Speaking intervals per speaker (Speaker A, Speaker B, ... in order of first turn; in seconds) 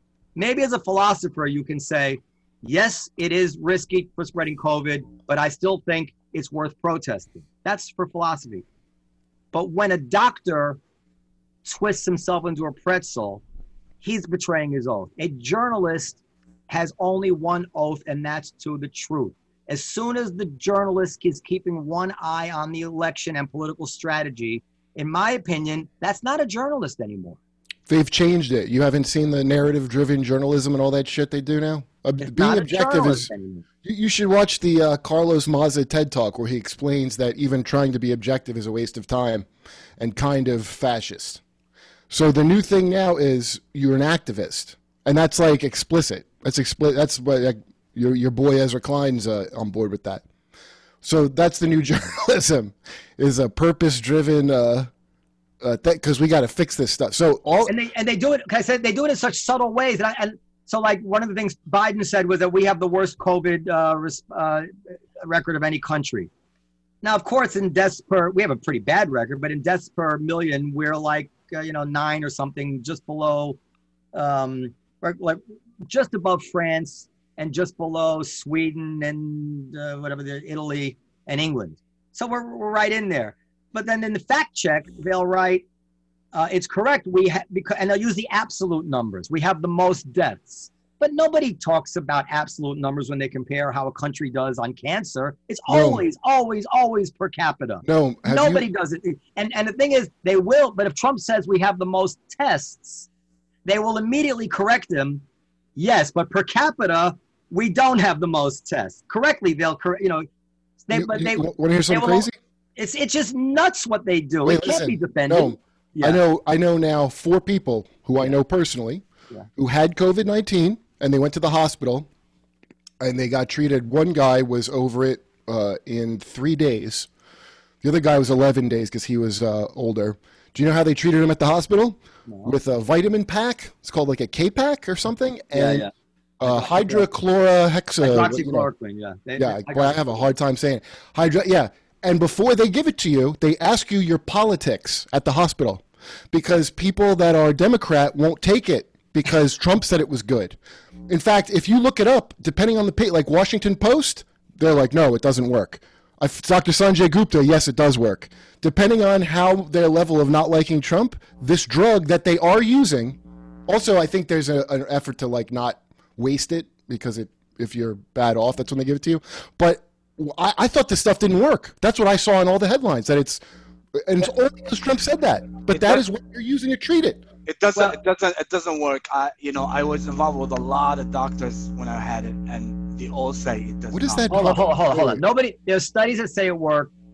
Speaker A: 0.4-8.7, 9.5-10.8, 11.6-13.4, 14.0-27.4, 32.2-33.6, 57.7-66.3, 67.0-73.6, 74.1-85.7, 86.3-103.1, 103.7-105.2, 105.8-110.3, 110.8-116.2, 132.3-132.5, 135.5-135.9, 136.4-137.1, 138.0-140.2, 184.3-186.9
Speaker B: 27.9-33.3, 33.8-39.5, 40.0-41.4, 42.1-50.2, 51.0-54.9, 55.6-57.7, 95.7-96.0, 97.8-98.7, 110.9-112.3, 114.5-119.0, 119.6-122.1, 123.0-127.1, 127.8-135.9, 136.4-138.7, 139.4-150.6, 151.1-173.4, 174.0-177.2, 183.9-185.2
Speaker C: 175.7-176.1, 177.5-184.7